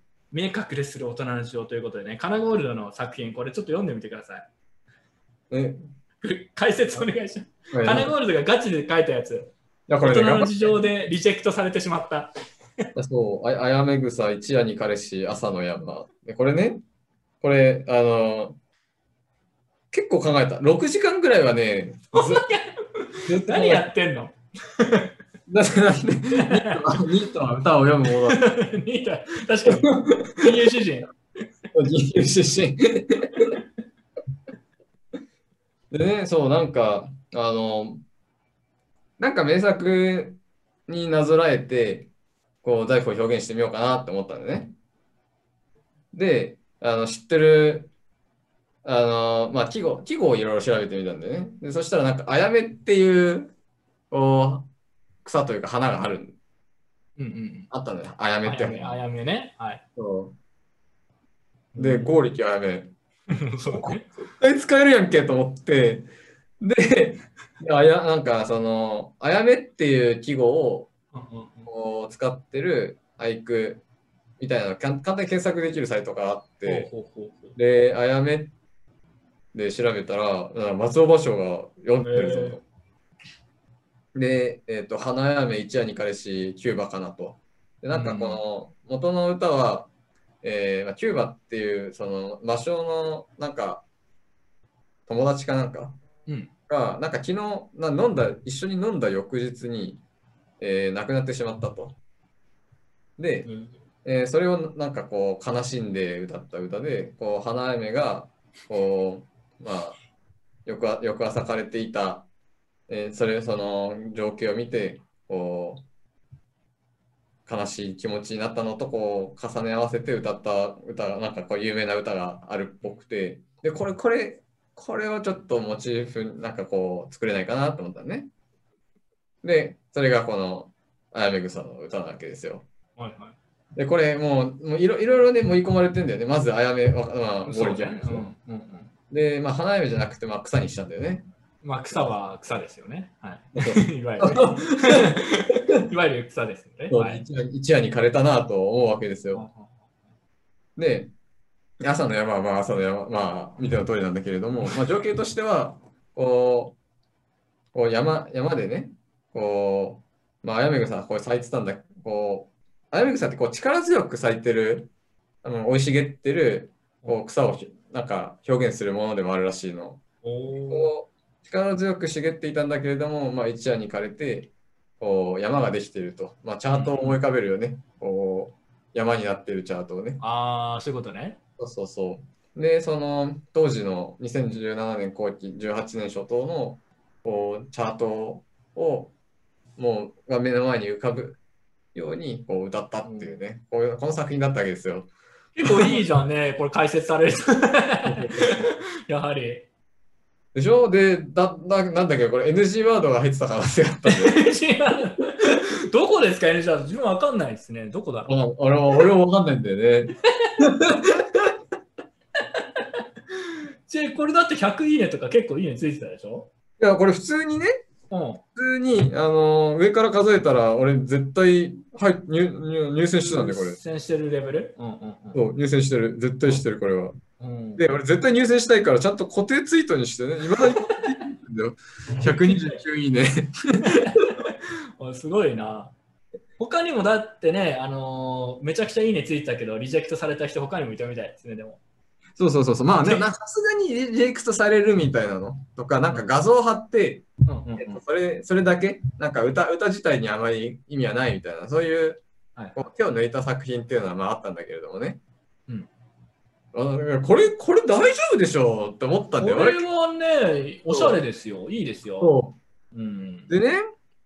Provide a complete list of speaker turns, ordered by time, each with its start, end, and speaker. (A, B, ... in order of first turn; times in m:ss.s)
0:00.3-0:04.5 A
0:05.5-0:05.9 B
0:06.2-0:12.3 A
0:07.7-0:08.1 B
0:09.9-0:10.8 B
0:13.0-0:16.8 B
0:17.4-0:18.6 B
0:19.9-0:22.5 B
0:22.1-0:25.1 A
0:23.3-0:23.9 B
0:25.5-0:28.4 B
0:26.4-0:26.8 A
0:28.3-0:31.1 A
0:29.7-0:30.5 B
0:31.7-0:33.5 B
0:35.9-0:38.0 B
0:39.2-0:42.1 B
0:42.6-0:44.7 B
0:46.1-0:47.9 B
0:48.8-0:53.5 B
0:54.1-0:54.7 B
0:55.2-0:56.4 B
0:57.2-0:57.7 A
0:57.7-0:59.0 B
0:58.4-0:59.8 A
1:00.0-1:00.4 B
1:01.7-1:02.2 A
1:01.8-1:02.9 B
1:03.3-1:04.0 A
1:03.6-1:06.1 B
1:06.6-1:10.9 B
1:11.1-1:11.7 A
1:11.7-1:13.8 B
1:14.4-1:16.9 B
1:16.6-1:17.6 A
1:17.6-1:18.5 B
1:19.5-1:22.6 B
1:22.0-1:22.6 A
1:24.1-1:29.9 B
1:27.9-1:28.4 A
1:30.4-1:33.8 B
1:35.1-1:36.0 B
1:36.7-1:40.0 B
1:40.6-1:42.0 B
1:43.2-1:43.5 B
1:43.4-1:43.7 A
1:44.0-1:50.0 B
1:50.6-1:52.3 B
1:52.9-1:55.8 B
1:57.4-2:08.3 B
2:09.4-2:12.6 B
2:13.0-2:13.4 A
2:13.8-2:18.3 B
2:17.4-2:18.9 A
2:19.1-2:21.3 B
2:21.6-2:27.2 A
2:23.6-2:25.2 B
2:26.9-2:29.4 B
2:29.3-2:29.9 A
2:30.8-2:31.1 B
2:31.8-2:36.8 B
2:37.7-2:44.9 B
2:45.4-2:50.0 B
2:50.2-2:50.9 A
2:50.7-3:00.2 B
2:56.7-2:57.2 A
3:00.2-3:01.4 A
3:01.6-3:09.1 B
3:09.8-3:11.4 B
3:11.9-3:15.1 B
3:13.0-3:13.3 A
3:15.6-3:19.6 A
3:15.6-3:16.0 B
3:18.0-3:18.7 B
3:20.5-3:24.5 B
3:24.0-3:28.3 A
3:28.3-3:31.4 B
3:32.6-3:32.8 A
3:33.9-3:36.5 A
3:36.8-3:37.8 B
3:38.1-3:38.4 A
3:38.6-3:43.8 B
3:43.2-3:45.4 A
3:45.3-3:47.2 B
3:47.4-3:47.8 A
3:47.8-3:54.0 B
3:50.6-3:51.0 A
3:52.2-3:52.8 A
3:53.9-3:55.9 A
3:56.6-4:01.8 A
4:02.4-4:07.2 B
4:02.9-4:03.3 A
4:07.4-4:08.0 A
4:07.8-4:12.2 B
4:12.7-4:15.2 B
4:16.7-4:19.8 B
4:19.4-4:22.3 A
4:20.9-4:21.2 B
4:22.2-4:22.6 B
4:22.9-4:23.5 A
4:23.5-4:23.8 B